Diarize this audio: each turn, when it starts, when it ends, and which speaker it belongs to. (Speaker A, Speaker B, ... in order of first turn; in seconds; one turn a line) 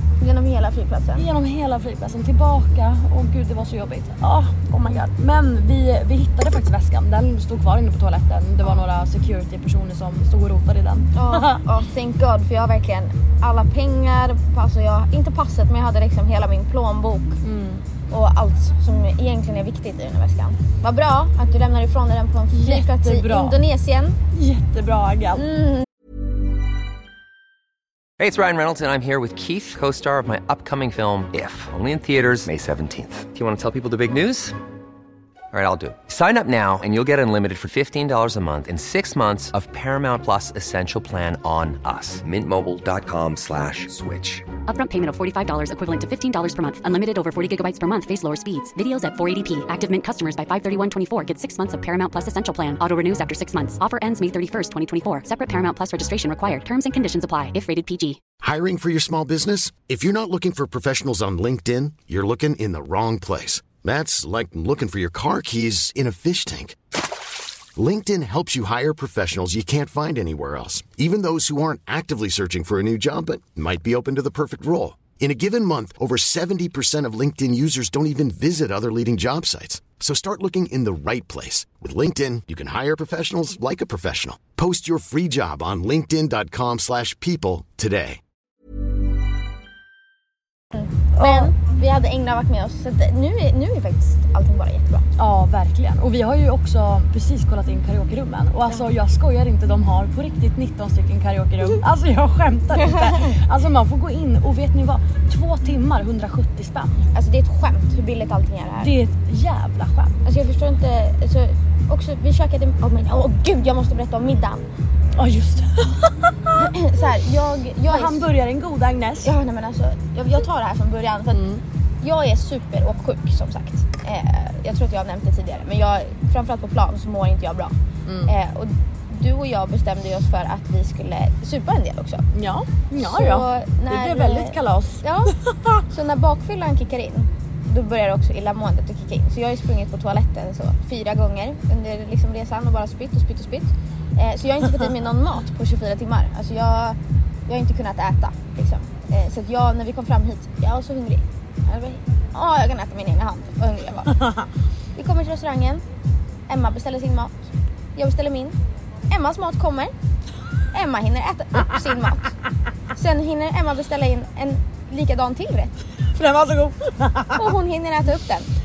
Speaker A: 0.2-1.2
Speaker B: 1.1-11.6
Speaker A: 11.1-17.4
Speaker B: 17.4-17.8
Speaker A: 18.1-24.2
Speaker B: 22.5-23.6
Speaker B: 24.3-25.4
Speaker A: 25.4-25.8
Speaker C: 28.2-34.5
Speaker C: 35.5-44.5
Speaker D: 44.7-58.2
Speaker E: 58.4-66.8
Speaker E: 67.8-88.2
Speaker A: 90.8-95.1
Speaker B: 91.2-91.5
Speaker B: 95.2-107.0
Speaker A: 107.1-108.9
Speaker B: 108.8-110.2
Speaker A: 110.2-114.6
Speaker B: 115.2-116.7
Speaker A: 116.6-118.3
Speaker B: 117.9-119.3
Speaker A: 119.2-121.4
Speaker B: 121.3-121.6
Speaker A: 122.0-127.7
Speaker B: 128.1-128.3
Speaker A: 128.2-132.2
Speaker B: 132.3-135.8
Speaker A: 132.9-135.3
Speaker A: 135.9-147.0
Speaker A: 147.5-154.3
Speaker A: 154.9-155.8
Speaker A: 156.5-157.3
Speaker A: 157.9-158.5
Speaker A: 159.1-159.9
Speaker A: 160.7-162.3
Speaker A: 162.9-165.8
Speaker B: 166.1-167.4
Speaker A: 167.3-168.5